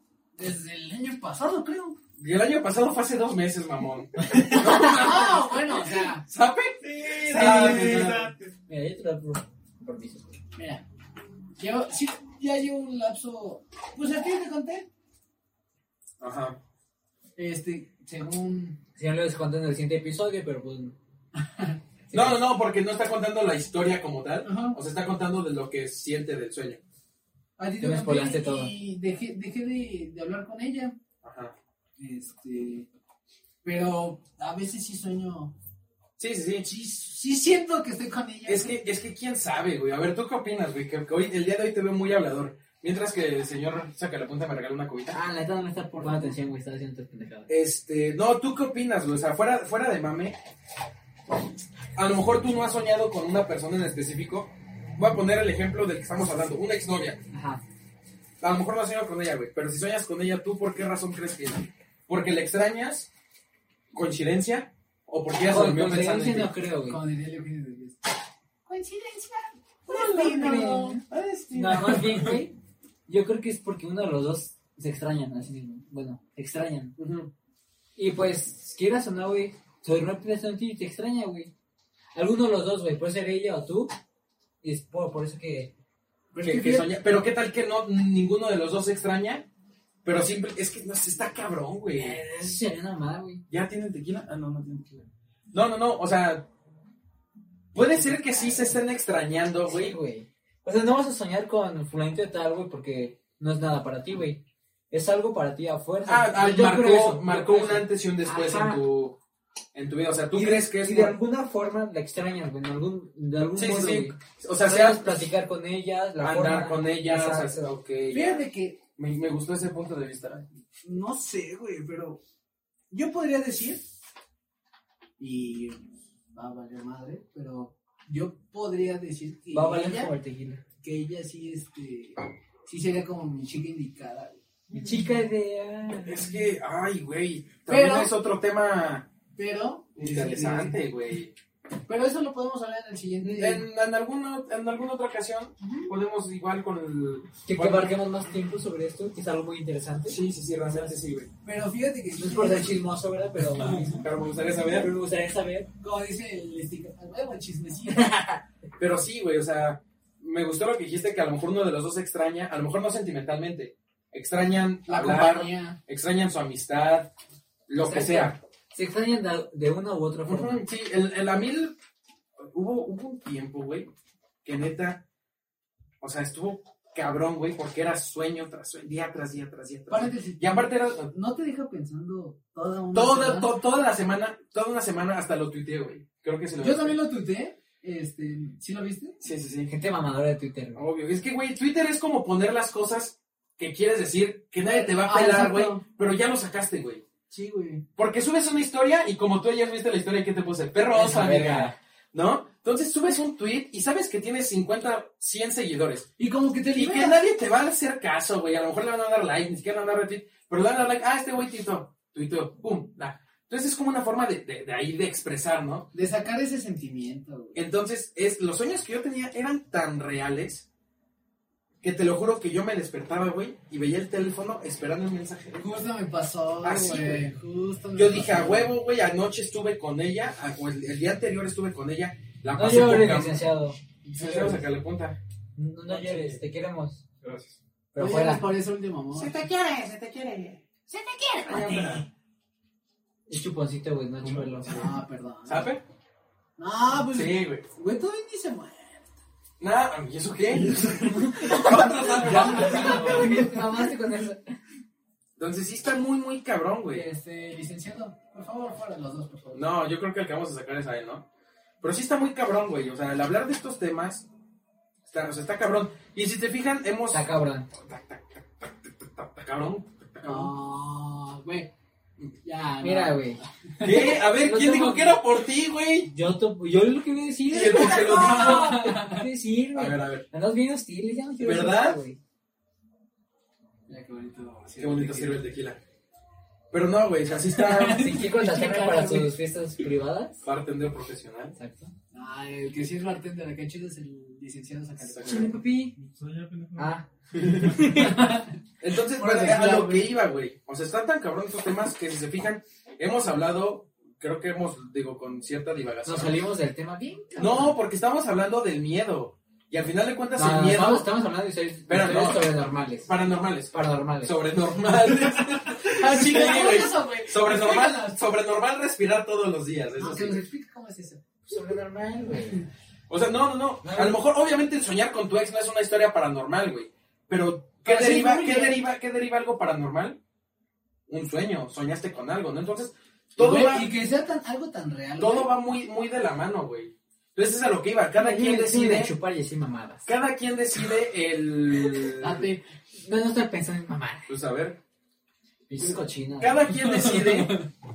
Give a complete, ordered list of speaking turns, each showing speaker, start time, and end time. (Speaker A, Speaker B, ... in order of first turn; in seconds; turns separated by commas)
Speaker A: 0.4-2.0, Speaker B: 2.2-5.5, Speaker A: 4.6-6.2, Speaker B: 6.0-8.3, Speaker C: 6.8-8.5, Speaker D: 8.7-10.4, Speaker A: 10.6-10.8, Speaker A: 11.6-14.9, Speaker B: 16.2-16.6, Speaker A: 17.4-18.8, Speaker D: 19.0-21.0, Speaker A: 21.4-21.8, Speaker D: 22.1-22.4, Speaker B: 22.1-26.8, Speaker A: 24.4-24.8, Speaker A: 27.6-31.0, Speaker D: 27.8-28.7, Speaker B: 31.2-31.6, Speaker A: 32.0-32.9, Speaker A: 33.6-35.5, Speaker B: 36.2-36.7, Speaker A: 36.6-38.8, Speaker B: 38.5-45.2, Speaker D: 45.1-47.5, Speaker B: 47.5-50.4, Speaker B: 52.0-57.2, Speaker D: 57.3-57.6, Speaker B: 58.4-63.1, Speaker B: 63.9-66.5, Speaker D: 65.4-67.0, Speaker A: 66.9-68.0, Speaker A: 68.7-71.0, Speaker B: 69.9-72.2, Speaker D: 69.9-71.0, Speaker D: 71.5-72.5, Speaker D: 73.1-77.0, Speaker B: 77.0-77.3, Speaker D: 78.0-81.5, Speaker D: 82.2-83.9, Speaker D: 84.6-85.7, Speaker A: 86.3-86.9, Speaker B: 86.4-89.5, Speaker B: 90.0-92.2, Speaker D: 92.0-93.4, Speaker B: 93.5-96.5, Speaker B: 97.7-100.0, Speaker D: 98.2-98.7, Speaker D: 99.7-108.8, Speaker B: 106.1-109.2, Speaker B: 109.7-111.2, Speaker D: 110.3-117.7, Speaker B: 113.6-115.2, Speaker B: 116.2-118.4, Speaker A: 118.1-118.8, Speaker B: 119.0-120.5, Speaker A: 120.8-122.2, Speaker A: 122.9-123.8, Speaker A: 125.2-130.1, Speaker D: 129.5-130.6, Speaker A: 130.8-134.9, Speaker D: 134.7-136.4, Speaker B: 136.0-139.1, Speaker A: 137.7-138.1, Speaker A: 139.3-140.8, Speaker B: 140.0-141.3, Speaker A: 141.9-143.7, Speaker B: 143.2-148.0, Speaker A: 145.6-145.9, Speaker D: 147.5-150.9, Speaker B: 150.1-151.3, Speaker A: 151.4-152.8, Speaker D: 152.2-154.1, Speaker B: 153.9-154.9, Speaker D: 154.7-155.7, Speaker A: 155.8-158.2, Speaker D: 157.9-158.4, Speaker B: 158.8-167.1, Speaker A: 164.9-165.8, Speaker B: 167.7-168.4, Speaker D: 167.8-170.6, Speaker B: 170.3-171.8, Speaker B: 172.4-173.9, Speaker B: 174.4-175.0, Speaker B: 176.0-181.1, Speaker A: 179.9-183.5, Speaker B: 182.9-187.0, Speaker A: 186.6-189.2, Speaker B: 189.2-189.7, Speaker D: 189.7-190.8, Speaker B: 190.8-197.0, Speaker A: 194.6-195.8, Speaker A: 197.3-197.8, Speaker B: 198.0-206.1, Speaker D: 200.9-201.8, Speaker A: 206.2-207.2, Speaker B: 206.7-215.9, Speaker A: 215.9-217.6, Speaker B: 217.6-220.7, Speaker B: 221.8-225.8, Speaker A: 225.6-228.8, Speaker B: 226.6-227.3, Speaker B: 227.9-233.5, Speaker D: 232.5-233.8, Speaker A: 234.1-234.6, Speaker B: 234.1-235.2, Speaker D: 235.6-237.0, Speaker B: 235.9-236.4, Speaker B: 237.2-237.6, Speaker D: 237.9-238.5, Speaker A: 238.0-239.4, Speaker B: 239.1-242.1, Speaker D: 241.2-242.0, Speaker D: 243.3-244.9, Speaker A: 244.7-245.7, Speaker B: 245.5-245.8, Speaker A: 246.6-249.2, Speaker B: 247.1-247.7, Speaker B: 249.6-253.5, Speaker D: 251.1-254.6, Speaker A: 252.2-253.4, Speaker C: 252.3-253.6, Speaker B: 255.4-257.1, Speaker A: 256.9-259.7, Speaker B: 259.5-261.2, Speaker B: 261.8-264.3, Speaker B: 265.1-270.5, Speaker D: 267.1-267.7, Speaker A: 270.2-271.7, Speaker A: 272.4-274.1, Speaker D: 272.8-275.2, Speaker B: 273.8-276.1, Speaker D: 276.1-282.2, Speaker B: 277.5-278.8, Speaker A: 277.7-279.2, Speaker B: 279.7-280.3, Speaker B: 281.4-282.0, Speaker A: 283.9-285.5, Speaker B: 284.8-285.8, Speaker B: 286.7-288.1, Speaker A: 287.5-289.3, Speaker D: 287.8-290.4, Speaker B: 290.4-291.6, Speaker D: 291.6-291.9, Speaker A: 292.1-295.6, Speaker B: 295.0-295.6, Speaker D: 295.3-296.0, Speaker C: 296.0-298.0, Speaker D: 296.8-298.2, Speaker B: 297.4-297.8, Speaker A: 297.8-298.6, Speaker B: 298.8-306.4, Speaker A: 299.1-300.1, Speaker D: 306.1-307.8, Speaker B: 307.4-311.1, Speaker D: 310.4-313.1, Speaker B: 311.9-312.5, Speaker B: 313.0-320.4, Speaker D: 313.7-314.3, Speaker A: 316.1-318.2, Speaker A: 320.0-321.2, Speaker D: 321.5-322.7, Speaker B: 323.1-330.2, Speaker D: 323.8-324.2, Speaker A: 327.9-328.8, Speaker B: 331.1-333.9, Speaker A: 333.4-335.5, Speaker B: 335.2-339.1, Speaker D: 338.2-340.1, Speaker B: 340.1-342.5, Speaker D: 342.2-344.3, Speaker B: 344.3-344.8, Speaker D: 345.7-346.7, Speaker B: 345.8-347.6, Speaker A: 346.9-347.7